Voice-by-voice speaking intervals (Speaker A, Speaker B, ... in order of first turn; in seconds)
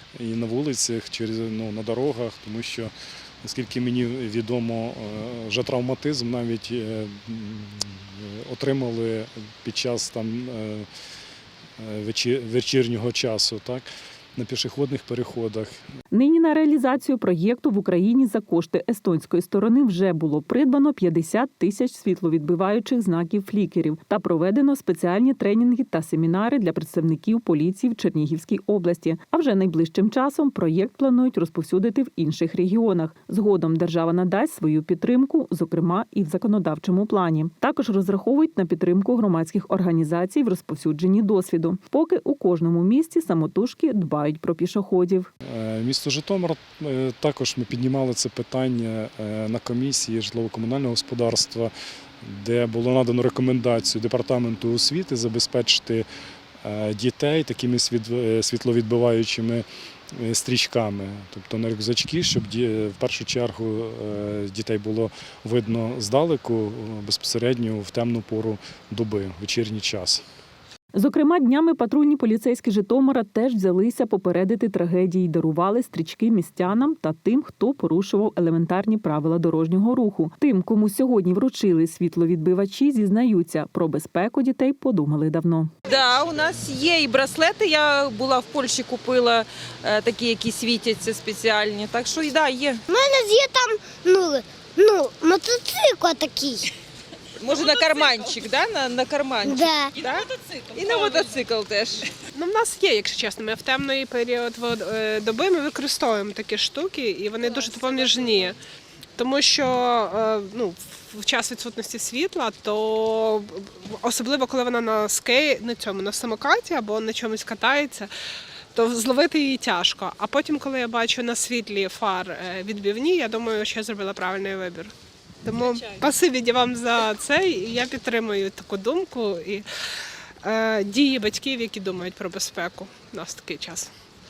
Speaker A: 0.1-10.9, 11.8-15.8, 45.4-56.0, 56.6-70.2
Speaker B: 16.1-45.3, 70.9-85.7
Speaker C: 85.8-92.8, 97.3-102.1
Speaker D: 92.9-96.7, 99.4-99.9
Speaker E: 102.3-108.6, 109.2-118.1, 118.7-124.9, 125.4-129.7, 130.4-133.9